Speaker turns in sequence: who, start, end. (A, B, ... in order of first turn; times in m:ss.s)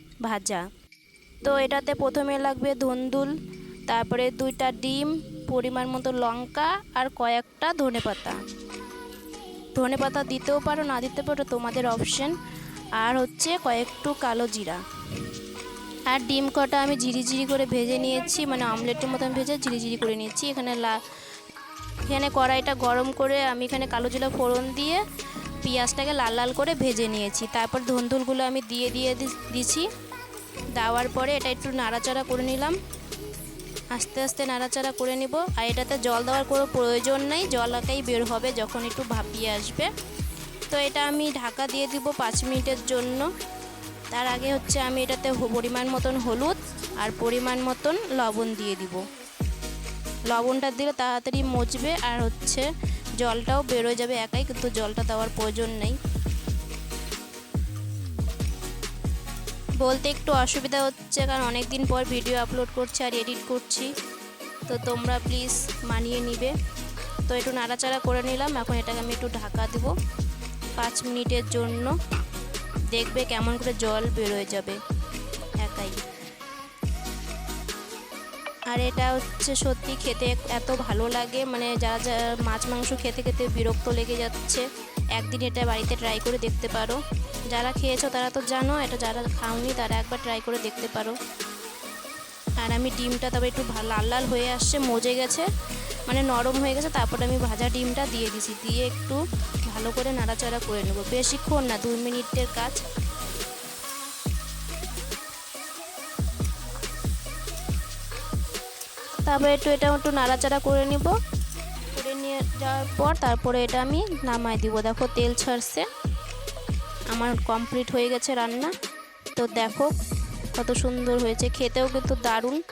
0:00.2-0:00.7 A
0:01.4-0:03.3 A
0:03.9-0:08.4 A
0:09.7-0:12.4 A
0:13.0-0:14.8 A
0:16.1-0:21.0 A
0:22.1-0:25.0 A
0:25.6-0:29.9 A
0:30.8-0:32.8 A
0:33.9-0:39.9 A
0:40.7-0:43.3 A
0:44.1-0:49.0 A
0:50.3-0:52.7 A
0:53.2-0:56.0 A
0:59.8-1:03.9 A
1:04.7-1:06.5 A
1:07.3-1:09.9 A
1:10.8-1:12.0 A
1:12.9-1:14.8 A
1:15.6-1:16.0 A
1:18.7-1:27.0 A
1:27.5-1:31.2 A
1:32.6-1:35.5 A
1:36.1-1:42.8 A
1:49.2-1:51.1 A
1:51.9-1:55.9 A
1:57.1-1:58.7 A
1:59.3-1:59.9 A
2:00.5-2:02.6 A